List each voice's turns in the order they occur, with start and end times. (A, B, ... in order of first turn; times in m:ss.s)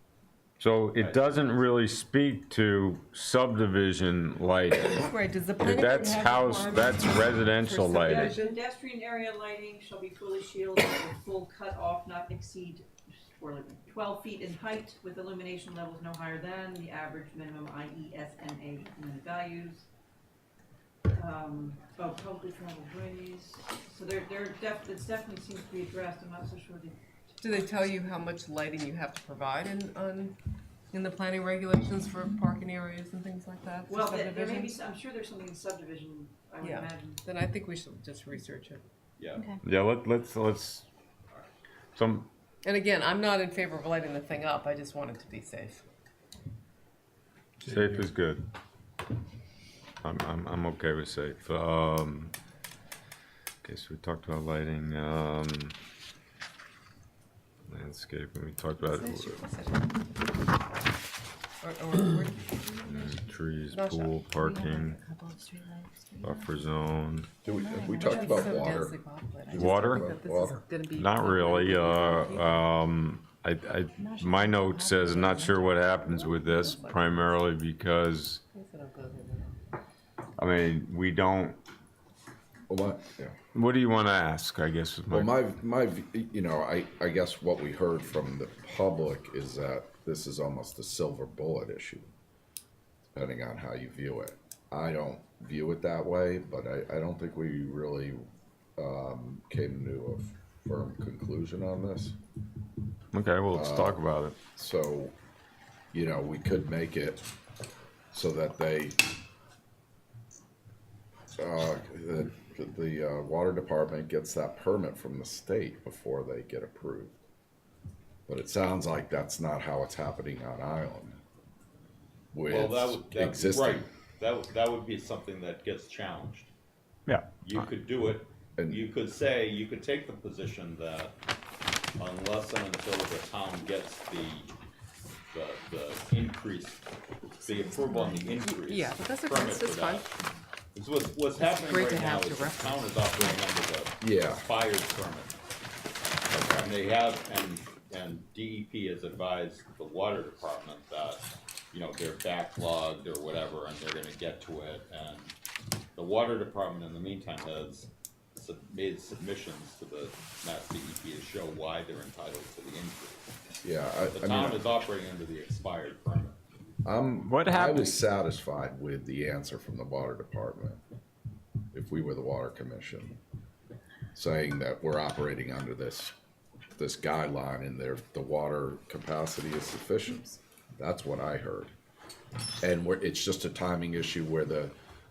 0:00.6-0:08.4 A
0:01.0-0:01.7 B
0:04.9-0:08.6 C
0:08.0-0:19.9 D
0:21.1-0:27.9 D
0:27.4-0:30.4 C
0:30.9-0:34.7 C
0:33.9-0:37.2 D
0:36.6-0:38.8 C
0:39.2-0:39.5 B
0:39.3-0:39.6 E
0:39.6-0:40.9 A
0:42.0-0:42.3 A
0:42.6-0:45.8 C
0:47.6-0:48.5 A
0:50.0-0:52.3 A
0:53.6-0:55.8 A
0:57.7-0:59.4 A
0:58.8-1:00.0 C
1:01.6-1:03.2 C
1:02.8-1:05.0 A
1:03.7-1:04.2 C
1:04.3-1:06.5 E
1:06.2-1:07.3 A
1:07.4-1:10.6 F
1:07.4-1:08.8 E
1:08.0-1:12.7 C
1:09.5-1:10.1 A
1:10.9-1:18.4 A
1:14.0-1:16.9 E
1:16.6-1:17.4 C
1:18.5-1:19.5 C
1:20.4-1:21.6 A
1:22.7-1:23.4 F
1:23.5-1:25.4 A
1:25.1-1:32.1 F
1:33.1-1:42.2 F
1:43.1-1:44.4 A
1:43.5-1:45.1 F
1:45.9-1:47.2 F
1:48.1-1:49.0 F
1:51.4-1:57.2 F
1:58.3-2:01.2 F
2:02.3-2:03.9 F
2:02.5-2:06.5 B
2:07.4-2:11.2 B
2:08.6-2:08.8 F
2:12.0-2:14.5 B
2:15.3-2:16.9 B
2:17.4-2:20.2 B
2:17.4-2:18.4 E
2:18.4-2:20.1 C
2:20.7-2:25.4 B
2:21.4-2:23.0 E
2:24.0-2:24.4 F
2:26.3-2:26.7 F
2:26.6-2:35.3 B
2:36.0-2:43.2 B
2:43.6-2:44.6 F
2:44.1-2:46.4 B
2:46.8-2:50.8 F
2:47.2-2:48.0 A
2:51.7-2:53.2 F
2:54.2-2:56.1 F
2:56.8-3:01.7 F
3:02.6-3:04.7 F